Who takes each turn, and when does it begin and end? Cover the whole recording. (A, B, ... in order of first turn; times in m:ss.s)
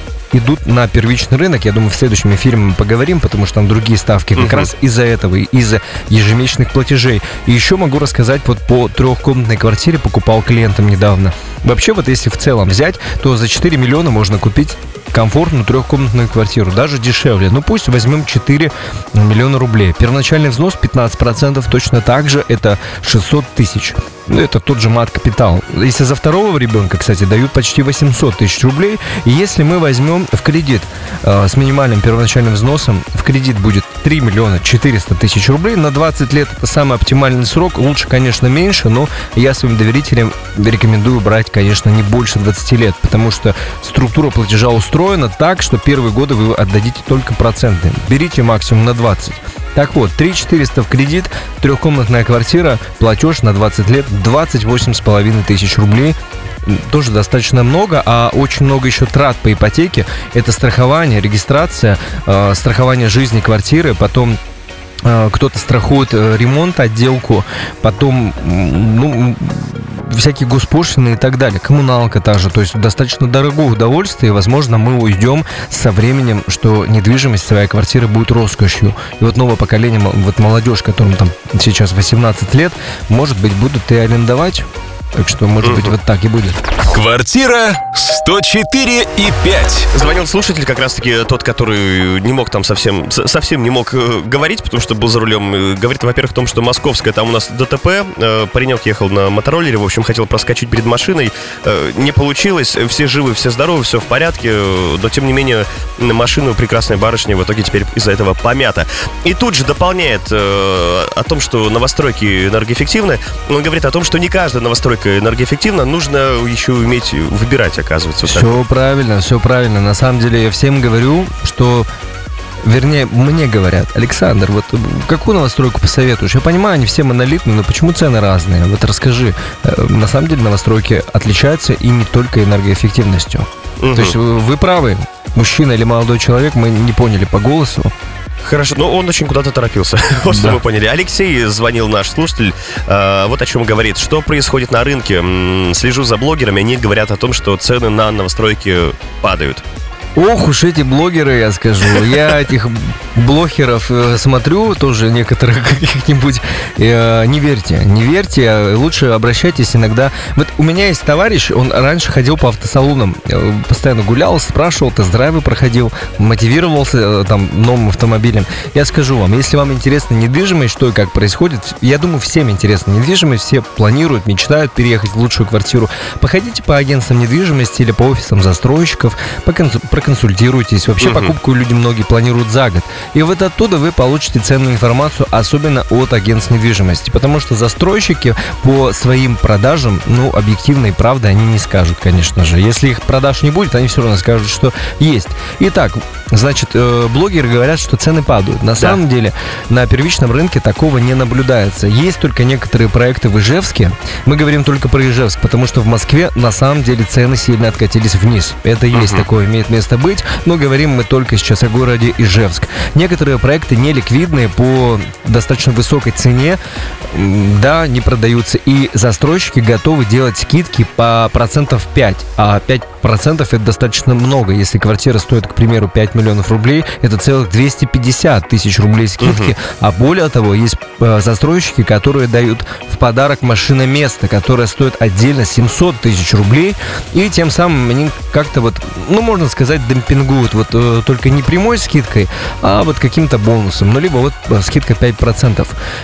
0:00.3-1:04.4 A
0:04.3-0:04.7 B
1:05.0-1:26.6 A
1:25.6-1:25.9 B
1:26.9-1:29.9 C
1:29.9-1:58.6 B
1:58.2-2:01.9 A
2:02.6-2:17.9 A
2:13.8-2:14.2 B
2:18.4-2:29.6 B
2:20.3-2:20.6 A
2:30.1-4:05.8 A
3:01.0-3:01.4 B
3:28.9-3:29.3 B
3:49.2-3:49.5 B